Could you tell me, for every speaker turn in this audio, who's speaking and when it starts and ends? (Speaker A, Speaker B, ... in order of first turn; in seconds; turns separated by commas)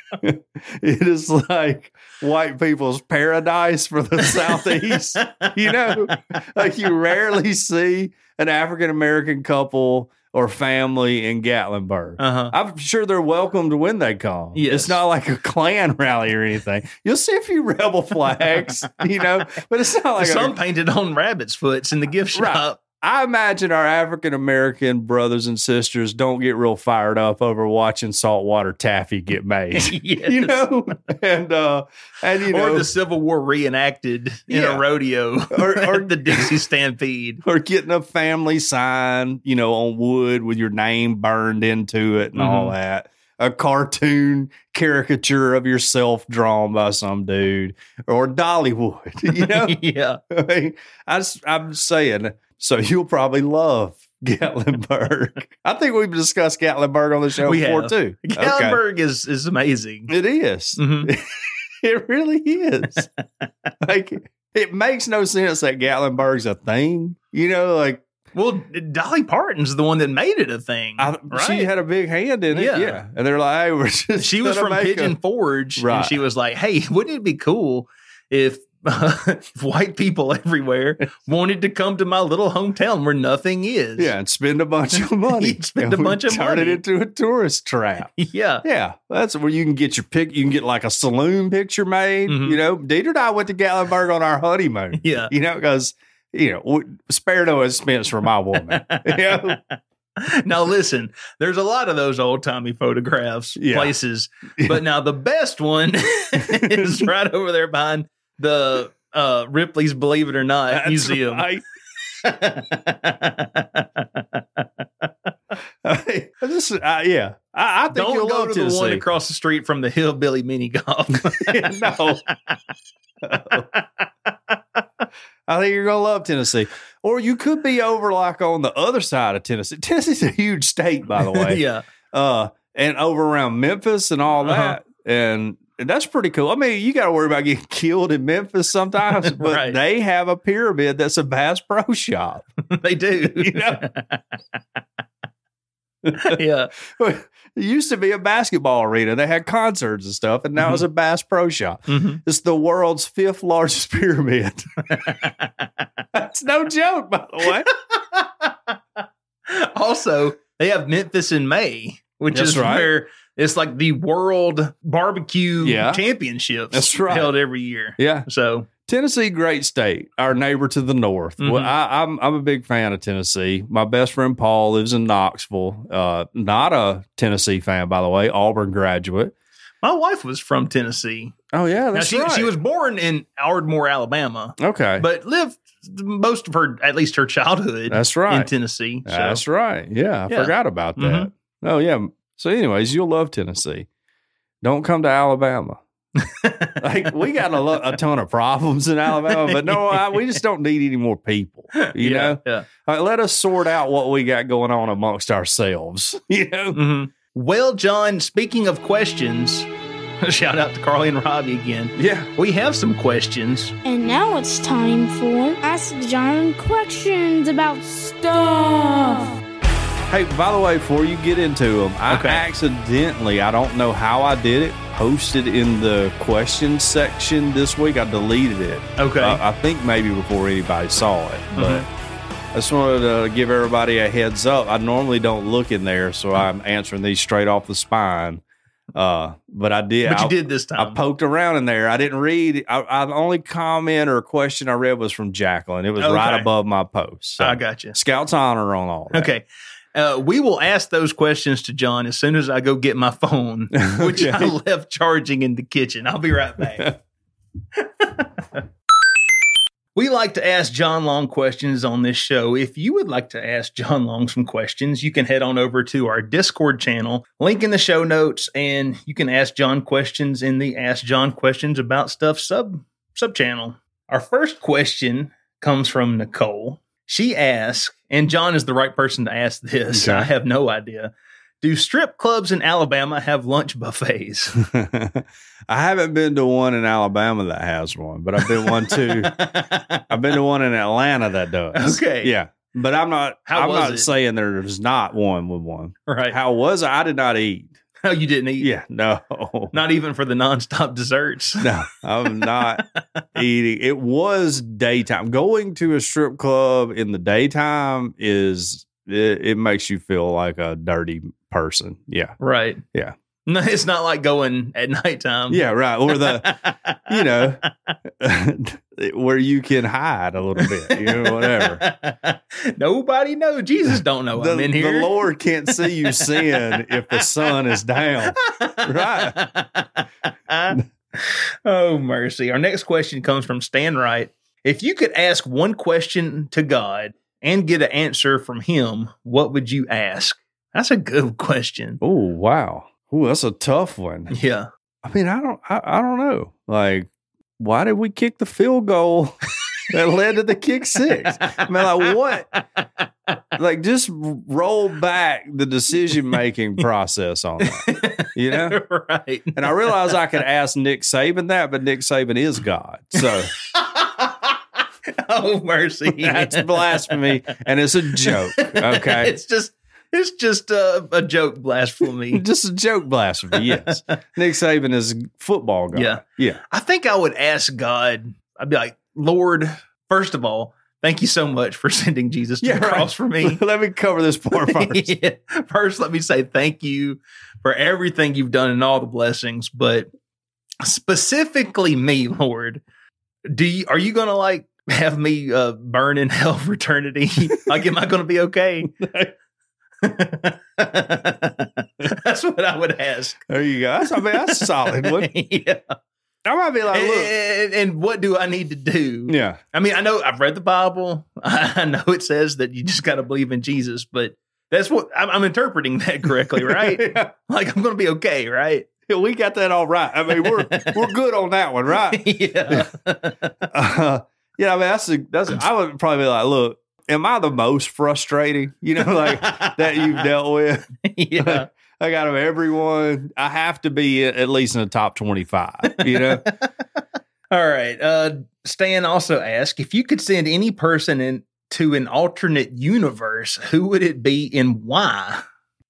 Speaker A: 0.2-20.6, Speaker B: 5.2-6.1, Speaker B: 12.2-12.5, Speaker B: 14.5-15.0, Speaker B: 20.2-22.8, Speaker A: 22.3-32.9, Speaker B: 29.7-30.6, Speaker B: 32.5-37.4, Speaker A: 34.5-34.8, Speaker A: 35.5-36.5, Speaker A: 37.4-58.8, Speaker B: 42.4-42.7, Speaker B: 49.3-50.2, Speaker B: 57.4-60.1, Speaker A: 60.1-63.1, Speaker B: 60.8-61.1, Speaker A: 63.8-68.0, Speaker B: 68.3-71.7, Speaker A: 71.0-75.2, Speaker B: 72.5-73.0, Speaker B: 74.2-84.1, Speaker A: 75.8-76.2, Speaker A: 84.0-88.1, Speaker B: 85.3-86.8, Speaker B: 88.2-88.6, Speaker A: 88.6-99.6, Speaker B: 92.3-92.6, Speaker B: 95.0-95.3, Speaker B: 98.7-111.5, Speaker A: 103.5-103.9, Speaker A: 104.6-104.8, Speaker A: 106.4-107.0, Speaker A: 110.7-111.6, Speaker B: 112.2-114.6, Speaker A: 115.8-119.0, Speaker B: 117.9-121.9, Speaker A: 121.2-122.2, Speaker A: 123.2-123.7, Speaker B: 123.5-123.8, Speaker A: 125.5-142.4, Speaker B: 131.2-131.8, Speaker B: 134.4-134.8, Speaker B: 139.2-139.8, Speaker B: 142.7-144.2, Speaker A: 143.2-143.8, Speaker A: 146.0-154.7, Speaker B: 146.2-146.7, Speaker B: 151.9-152.2, Speaker B: 154.9-155.5, Speaker A: 156.1-157.7, Speaker B: 157.9-158.8, Speaker B: 159.5-168.7, Speaker A: 162.3-162.9, Speaker A: 165.6-166.0, Speaker A: 166.7-167.3, Speaker A: 168.0-168.3, Speaker A: 168.8-179.3, Speaker B: 171.4-171.7, Speaker B: 179.8-181.3, Speaker A: 181.5-182.5, Speaker B: 181.9-189.4, Speaker A: 184.6-185.1, Speaker A: 187.9-188.5, Speaker A: 189.0-193.9, Speaker B: 190.3-191.3, Speaker A: 194.6-195.8, Speaker B: 196.2-196.8, Speaker A: 196.8-206.8, Speaker B: 199.1-200.3, Speaker B: 201.7-202.7, Speaker B: 206.7-209.7, Speaker B: 210.2-213.7, Speaker A: 211.9-212.3, Speaker C: 213.8-219.4, Speaker A: 220.1-231.9, Speaker B: 222.1-222.4, Speaker B: 229.0-229.4, Speaker B: 231.5-231.9, Speaker A: 232.5-238.4, Speaker A: 238.9-249.3, Speaker B: 240.0-241.0, Speaker B: 246.0-246.5, Speaker B: 247.4-247.9, Speaker B: 249.1-256.9, Speaker A: 253.8-254.5, Speaker B: 257.8-258.3, Speaker B: 259.9-284.6, Speaker A: 279.9-280.3, Speaker A: 284.6-289.5, Speaker B: 288.4-290.1, Speaker A: 290.1-297.7, Speaker B: 291.7-292.3, Speaker B: 293.5-294.1, Speaker B: 296.1-296.4, Speaker B: 298.0-298.7, Speaker A: 298.6-299.7, Speaker B: 299.7-301.7, Speaker A: 301.6-302.8, Speaker B: 302.2-303.2, Speaker A: 303.3-312.4, Speaker B: 312.4-312.8, Speaker B: 313.4-317.5, Speaker A: 315.5-317.6, Speaker A: 318.2-321.8, Speaker B: 320.6-327.5, Speaker A: 324.3-329.4, Speaker B: 328.4-342.0, Speaker A: 342.0-344.3, Speaker B: 344.3-344.7, Speaker A: 345.0-349.4, Speaker A: 349.9-352.5, Speaker B: 351.1-352.1, Speaker A: 353.5-358.8, Speaker B: 357.6-360.2, Speaker A: 359.6-363.5, Speaker B: 363.2-364.5, Speaker B: 365.1-367.2, Speaker A: 366.1-369.3, Speaker B: 368.2-372.4, Speaker A: 372.3-376.6, Speaker B: 373.5-374.0, Speaker B: 375.9-383.6, Speaker A: 382.6-385.1, Speaker B: 384.5-390.1, Speaker B: 390.8-392.8, Speaker B: 393.5-398.9, Speaker A: 399.0-399.3, Speaker B: 400.0-403.4, Speaker A: 403.5-405.3, Speaker B: 404.0-405.9, Speaker A: 406.4-407.3, Speaker B: 406.9-418.9, Speaker A: 409.3-409.6, Speaker A: 416.5-417.3, Speaker A: 419.1-422.9, Speaker B: 420.4-421.0, Speaker B: 422.1-423.6, Speaker A: 423.7-436.5, Speaker B: 429.0-430.3, Speaker B: 431.0-431.7, Speaker B: 435.9-436.6, Speaker B: 437.5-445.4